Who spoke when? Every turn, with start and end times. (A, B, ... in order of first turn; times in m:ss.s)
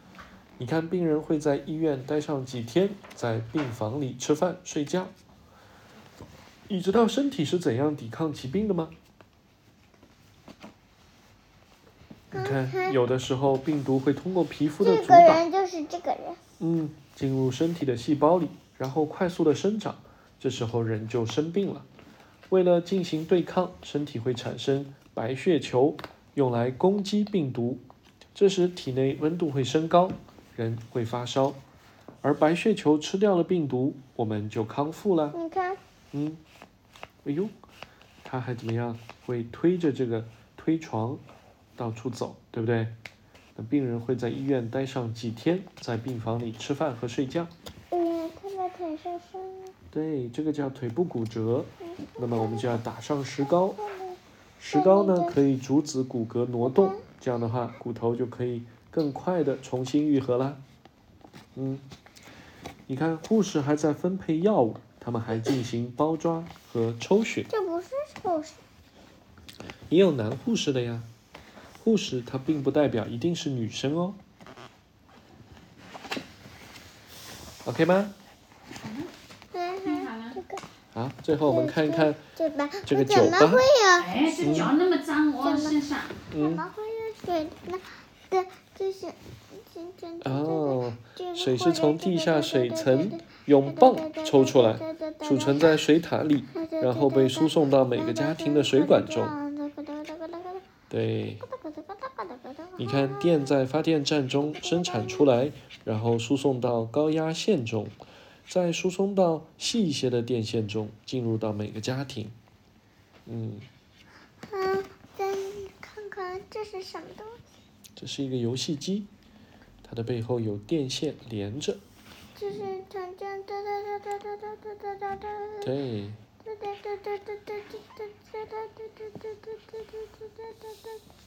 0:00.6-0:05.1 A
0:06.7-0:09.0 A
0:12.3-0:13.0 B
0:12.3-0:15.4 A
0:14.8-0:16.4 B
0:16.6-0:21.9 A
0:22.5-0:27.8 A
0:28.4-0:31.6 A
0:32.2-0:35.4 A
0:35.3-0:35.8 B
0:36.1-0:36.4 A
0:37.2-0:37.5 A
0:38.2-0:41.2 A
0:41.8-0:43.0 A
0:43.6-0:47.5 A
0:47.9-0:49.7 B
0:49.9-0:53.8 A
0:51.8-0:52.8 B
0:53.4-0:54.2 B
0:54.6-1:00.6 A
0:54.7-0:55.4 B
0:56.6-0:57.0 B
1:01.6-1:01.9 A
1:02.9-1:07.5 A
1:07.5-1:08.6 B
1:09.9-1:11.1 A
1:11.8-1:14.2 A
1:17.6-1:18.1 A
1:18.8-1:19.1 C
1:19.5-1:20.6 B
1:19.8-1:20.4 C
1:21.0-1:22.2 A
1:21.4-1:24.7 B
1:22.9-1:23.6 A
1:24.0-1:26.2 C
1:24.4-1:24.7 A
1:25.4-1:25.8 B
1:26.3-1:26.6 A
1:26.3-1:35.8 B
1:30.2-1:39.4 A
1:36.5-1:40.7 B
1:40.9-1:41.4 A
1:41.3-1:43.5 B
1:42.8-1:52.4 A
1:44.5-1:45.3 B
1:53.3-1:53.7 A
1:54.4-1:57.4 B
1:58.0-1:59.1 A
1:59.8-2:01.8 A
2:02.4-2:05.7 B
2:05.6-2:06.2 A
2:06.4-2:11.0 B